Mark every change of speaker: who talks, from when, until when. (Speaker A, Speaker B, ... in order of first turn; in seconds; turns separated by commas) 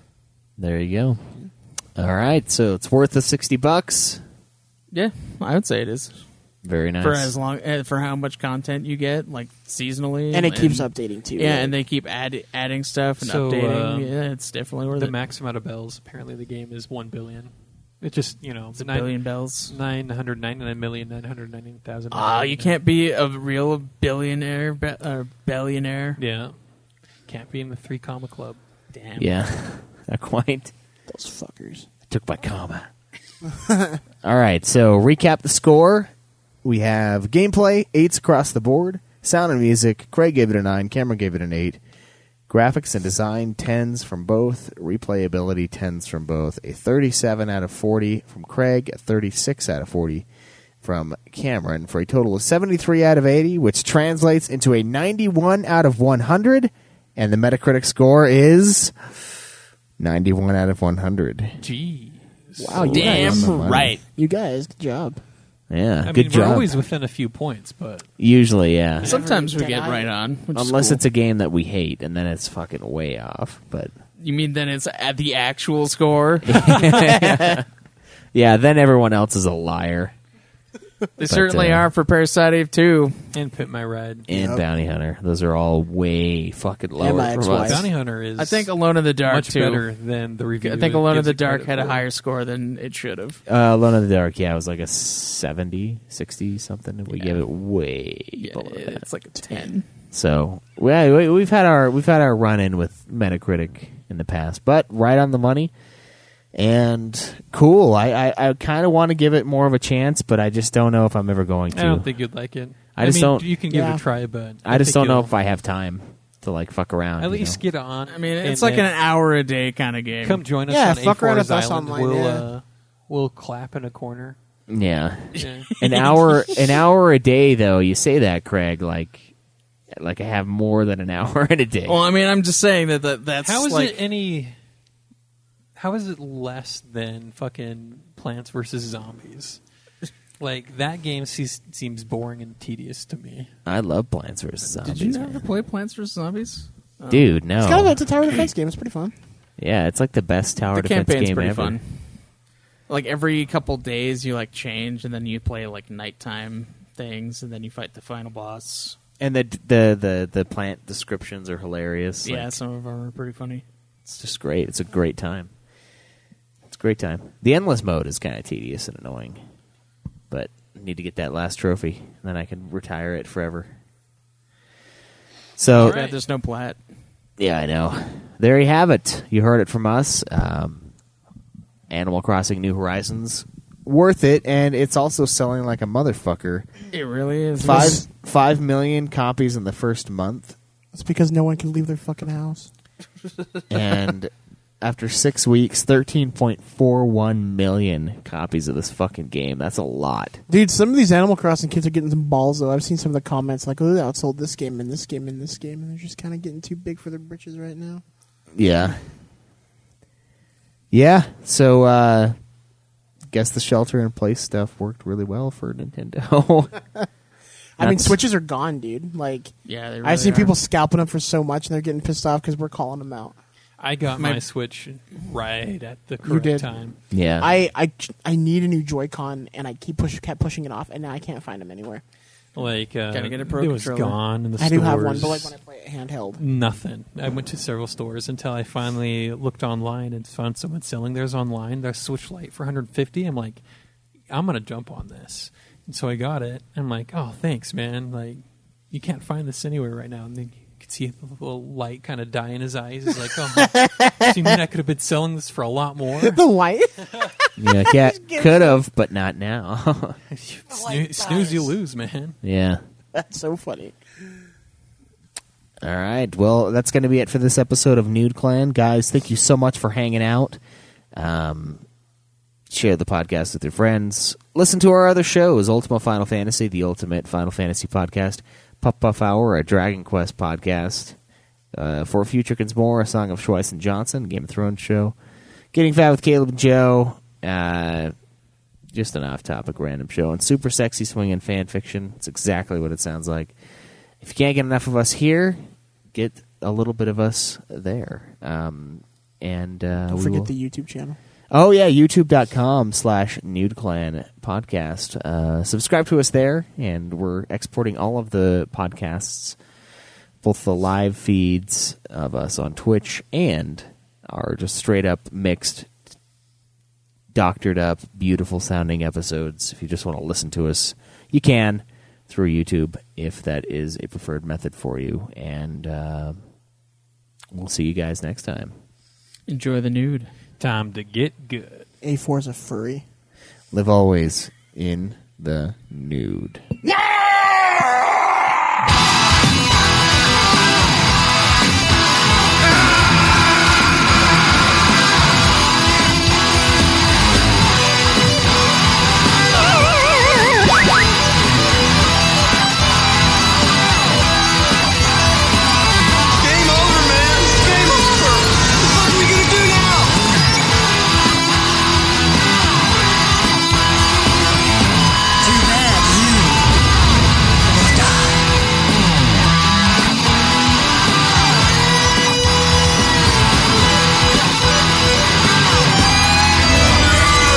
Speaker A: 0.6-1.2, Speaker A: 1.9-4.2, Speaker B: 4.9-6.2, Speaker A: 6.6-7.3, Speaker B: 7.0-15.2, Speaker C: 10.3-11.7, Speaker D: 13.2-14.1, Speaker D: 15.0-22.7, Speaker B: 18.7-19.7, Speaker B: 22.1-26.2, Speaker D: 26.2-26.6, Speaker D: 27.3-28.6, Speaker B: 28.9-29.4, Speaker A: 29.2-30.7, Speaker C: 31.1-31.9, Speaker A: 32.1-32.9, Speaker C: 33.6-34.0, Speaker A: 34.2-36.1, Speaker A: 36.6-41.8, Speaker A: 42.5-50.3, Speaker A: 50.8-59.0, Speaker A: 60.0-61.6, Speaker D: 61.6-63.1, Speaker C: 62.6-65.2, Speaker A: 62.7-64.0, Speaker B: 62.9-64.0, Speaker A: 65.7-66.7, Speaker D: 66.0-68.0, Speaker A: 68.2-69.2, Speaker C: 69.0-70.1, Speaker B: 69.0-71.0, Speaker A: 70.5-73.9, Speaker B: 74.2-77.1, Speaker A: 76.4-77.7, Speaker A: 78.3-80.1, Speaker B: 81.2-83.3, Speaker A: 81.3-81.9, Speaker D: 83.3-84.3, Speaker A: 84.3-87.8, Speaker C: 84.3-84.6, Speaker C: 87.0-87.8, Speaker D: 87.5-88.7, Speaker B: 88.4-89.9, Speaker D: 89.2-92.0, Speaker B: 90.6-93.4, Speaker A: 93.5-99.1, Speaker B: 97.1-97.4, Speaker B: 98.3-99.8, Speaker A: 100.1-105.7, Speaker A: 106.5-112.1, Speaker D: 111.7-115.3, Speaker A: 112.9-113.5, Speaker C: 113.7-114.0, Speaker A: 114.6-117.6, Speaker D: 117.2-118.9, Speaker B: 118.1-120.4, Speaker D: 120.2-124.4, Speaker C: 120.7-122.5, Speaker A: 124.7-129.3, Speaker D: 125.3-125.7, Speaker B: 125.7-126.3, Speaker A: 129.9-132.0, Speaker B: 131.8-134.0, Speaker D: 133.4-134.5, Speaker D: 135.8-139.6, Speaker D: 140.4-143.5, Speaker A: 143.7-145.4, Speaker B: 144.8-147.2, Speaker A: 147.1-148.0, Speaker C: 147.6-149.1, Speaker A: 149.6-151.8, Speaker B: 150.7-152.1, Speaker B: 152.9-159.0, Speaker A: 159.2-162.6, Speaker B: 162.2-163.6, Speaker A: 164.1-165.5, Speaker A: 166.7-169.4, Speaker A: 170.3-173.7, Speaker A: 175.6-176.0, Speaker B: 175.7-176.8, Speaker D: 175.8-176.2, Speaker A: 177.4-180.9, Speaker A: 181.9-186.7, Speaker B: 186.9-188.0, Speaker C: 187.6-188.0, Speaker A: 187.6-190.6, Speaker C: 190.9-192.7, Speaker A: 193.7-200.4, Speaker C: 200.5-208.0, Speaker A: 208.5-209.0, Speaker A: 210.9-212.3, Speaker A: 213.3-216.8, Speaker C: 217.8-223.3, Speaker A: 217.8-218.2, Speaker B: 219.7-220.6, Speaker D: 223.8-227.0, Speaker B: 224.2-224.4, Speaker C: 226.2-226.7, Speaker A: 227.1-227.5, Speaker C: 227.4-232.0, Speaker D: 232.6-235.6, Speaker B: 232.6-234.2, Speaker C: 234.6-236.4, Speaker D: 236.4-243.6, Speaker D: 244.3-256.4, Speaker C: 256.2-258.8, Speaker A: 257.6-260.2, Speaker D: 260.3-262.4, Speaker A: 262.4-262.8, Speaker C: 263.1-264.0, Speaker A: 265.8-270.6, Speaker A: 271.1-271.8, Speaker A: 272.7-281.2, Speaker A: 281.7-285.1, Speaker A: 285.7-288.1, Speaker A: 288.9-293.6, Speaker A: 294.2-300.5, Speaker C: 300.1-301.2, Speaker A: 301.5-309.6, Speaker A: 310.4-315.9, Speaker A: 317.3-326.4, Speaker A: 327.5-328.7, Speaker B: 329.5-330.3, Speaker D: 330.6-331.9, Speaker C: 332.0-333.0, Speaker A: 333.7-336.6, Speaker E: 356.4-360.3, Speaker E: 365.4-366.7, Speaker E: 367.7-368.4